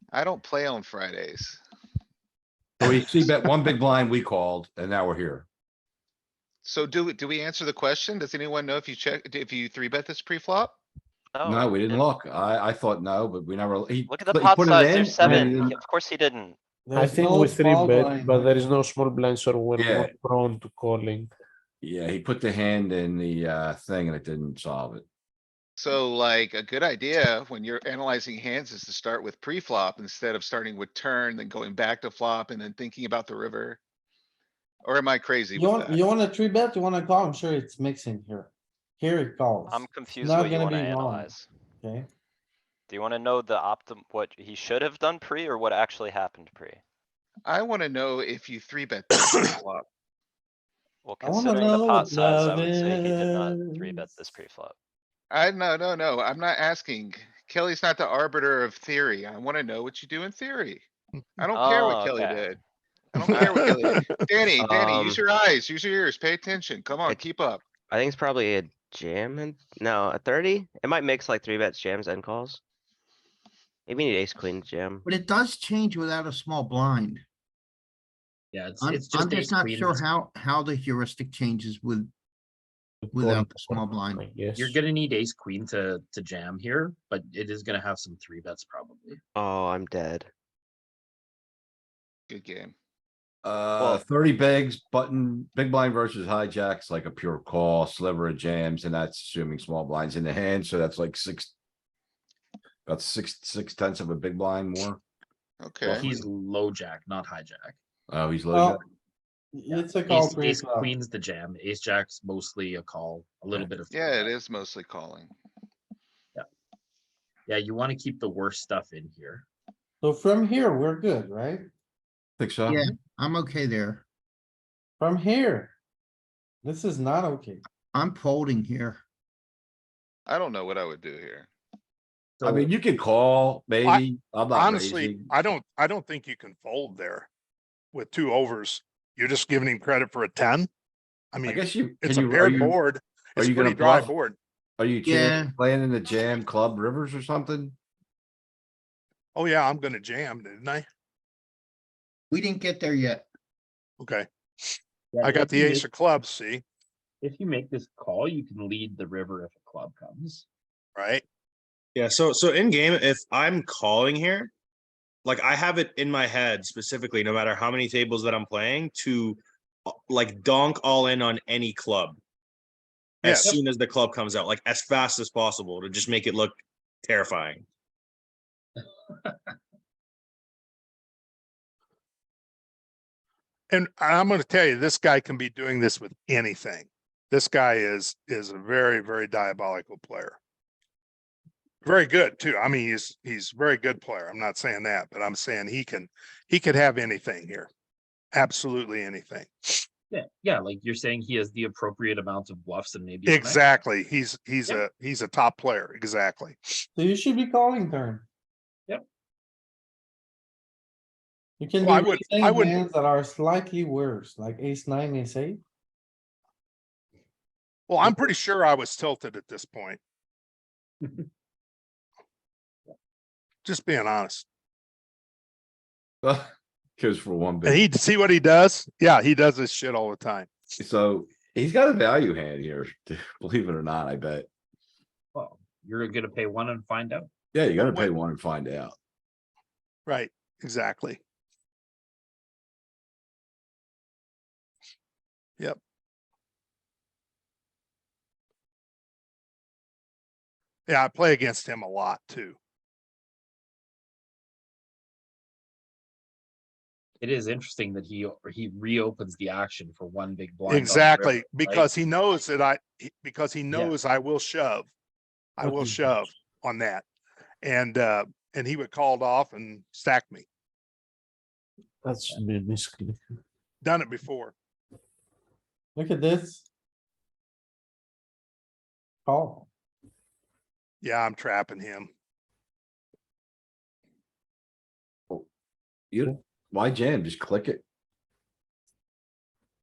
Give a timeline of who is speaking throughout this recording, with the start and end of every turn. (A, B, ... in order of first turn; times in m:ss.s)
0:00.1-0:01.6 A
0:02.8-0:05.5 B
0:06.6-0:10.8 A
0:11.3-0:12.1 C
0:11.4-0:15.8 B
0:14.1-0:16.6 C
0:15.2-0:15.7 D
0:16.9-0:18.6 E
0:17.0-0:21.3 D
0:19.8-0:20.1 B
0:21.8-0:25.0 B
0:25.8-0:33.8 A
0:34.8-0:36.0 A
0:35.6-0:41.3 E
0:39.7-0:41.5 C
0:41.8-0:42.1 E
0:42.9-0:46.8 C
0:47.4-0:49.9 A
0:51.0-0:54.8 C
0:51.2-0:54.1 E
0:55.3-1:00.8 A
1:01.4-1:02.6 A
1:01.5-1:02.5 C
1:03.1-1:07.7 A
1:03.2-1:04.3 F
1:04.6-1:05.2 G
1:07.9-1:12.6 G
1:13.9-1:15.0 G
1:15.0-1:17.2 H
1:18.5-1:20.0 I
1:18.8-1:22.1 H
1:23.0-1:24.8 D
1:23.1-1:24.2 H
1:24.6-1:29.2 I
1:29.4-1:30.3 G
1:32.3-1:32.7 A
1:33.4-1:41.5 B
1:33.8-1:34.0 G
1:42.8-1:45.0 B
1:45.6-1:46.1 A
1:45.9-1:47.8 I
1:45.9-1:46.2 B
1:48.1-1:48.8 B
1:48.5-1:48.8 E
1:49.5-1:50.9 E
1:49.7-1:54.3 I
1:53.9-1:55.3 A
1:57.5-1:59.4 I
2:00.0-2:01.7 E
2:02.4-2:02.9 B
2:02.7-2:04.0 H
2:05.0-2:05.7 E
2:06.6-2:07.6 E
2:07.9-2:09.0 H
2:10.3-2:11.5 A
2:12.4-2:12.7 I
2:12.4-2:15.3 B
2:13.8-2:17.3 F
2:17.9-2:20.7 F
2:21.3-2:24.4 F
2:21.4-2:22.8 B
2:23.4-2:24.1 B
2:24.8-2:27.8 B
2:25.0-2:25.5 H
2:29.3-2:30.9 F
2:32.3-2:33.2 H
2:34.0-2:36.6 F
2:35.1-2:35.9 I
2:37.2-2:40.4 I
2:41.0-2:41.2 F
2:42.0-2:44.5 J
2:45.2-2:52.2 J
2:53.2-2:57.6 J
2:53.2-2:53.5 F
3:03.7-3:10.4 F
3:11.8-3:17.7 F
3:18.3-3:19.8 F
3:20.1-3:23.7 I
3:23.3-3:26.8 F
3:27.0-3:28.2 E
3:31.6-3:35.6 E
3:31.8-3:32.8 F
3:37.9-3:40.0 F
3:43.6-3:44.4 F
3:46.2-3:47.8 B
3:47.6-3:50.5 F
3:50.8-3:54.5 B
3:55.3-3:57.3 I
3:57.5-3:59.0 B
3:57.8-3:58.1 F
4:00.1-4:01.2 F
4:10.9-4:12.6 F
4:17.2-4:21.9 I
4:20.7-4:24.9 F
4:25.6-4:27.0 F
4:27.6-4:30.4 F
4:32.0-4:33.2 D
4:33.8-4:34.5 F
4:35.9-4:36.6 E
4:39.2-4:39.7 E
4:41.0-4:42.1 F
4:46.1-4:47.8 B